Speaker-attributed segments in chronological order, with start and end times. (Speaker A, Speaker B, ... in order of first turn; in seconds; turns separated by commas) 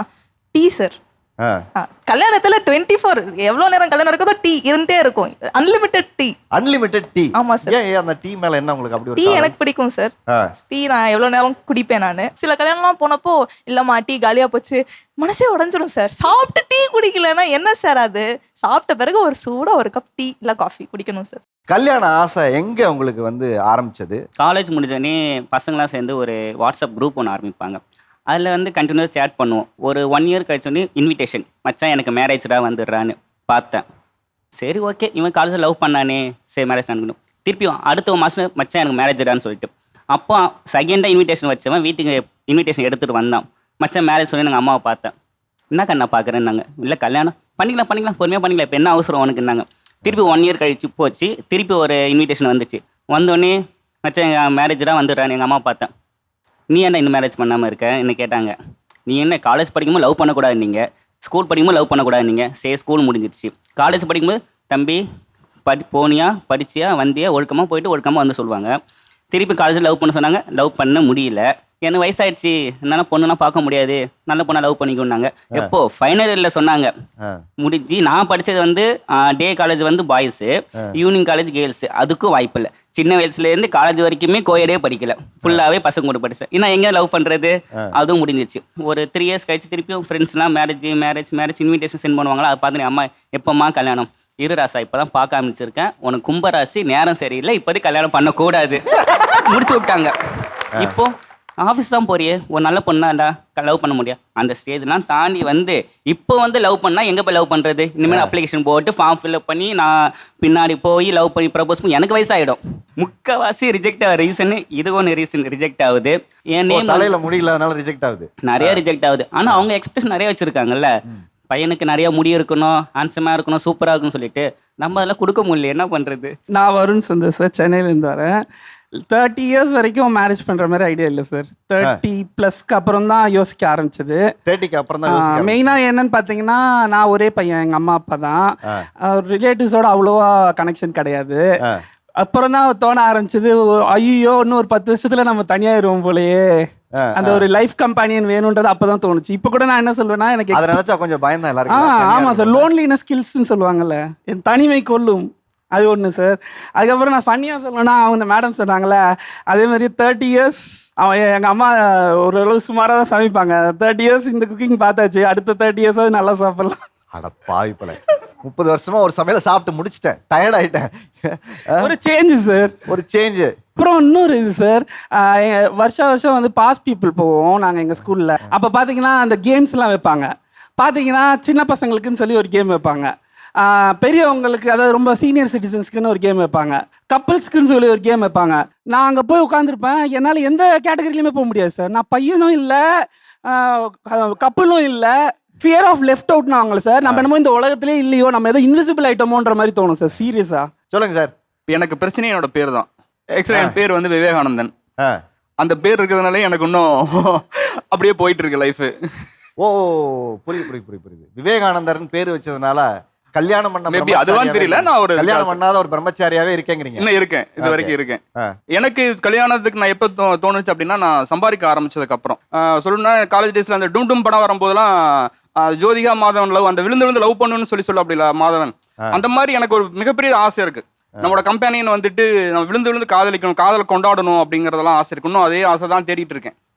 Speaker A: 0.5-1.0, Speaker A: 1.8-6.3, Speaker B: 6.5-9.5, Speaker A: 7.4-7.7, Speaker A: 9.2-10.1, Speaker A: 10.6-21.4, Speaker B: 21.7-24.2, Speaker C: 24.4-27.8, Speaker C: 28.3-33.8, Speaker C: 34.6-45.1, Speaker C: 45.7-55.9, Speaker C: 56.7-58.5, Speaker C: 59.1-65.0, Speaker C: 65.7-68.7, Speaker C: 69.3-76.9, Speaker C: 77.6-98.9, Speaker C: 99.5-100.1, Speaker C: 100.8-109.9, Speaker B: 108.1-108.3, Speaker C: 110.4-117.1, Speaker B: 116.7-118.8, Speaker C: 118.4-120.9, Speaker C: 121.5-126.3, Speaker D: 126.5-128.4, Speaker D: 129.1-134.3, Speaker B: 134.5-135.8, Speaker D: 135.1-141.4, Speaker D: 142.2-150.8, Speaker B: 147.0-147.4, Speaker B: 150.5-152.7, Speaker D: 151.7-166.8, Speaker B: 167.2-171.9, Speaker D: 171.8-172.8, Speaker B: 172.9-173.5, Speaker D: 173.8-192.8, Speaker D: 193.5-200.7, Speaker B: 200.9-201.3, Speaker E: 201.7-204.7, Speaker E: 205.6-208.9, Speaker B: 209.6-217.1, Speaker E: 213.9-215.6, Speaker E: 217.0-236.6, Speaker B: 217.6-218.5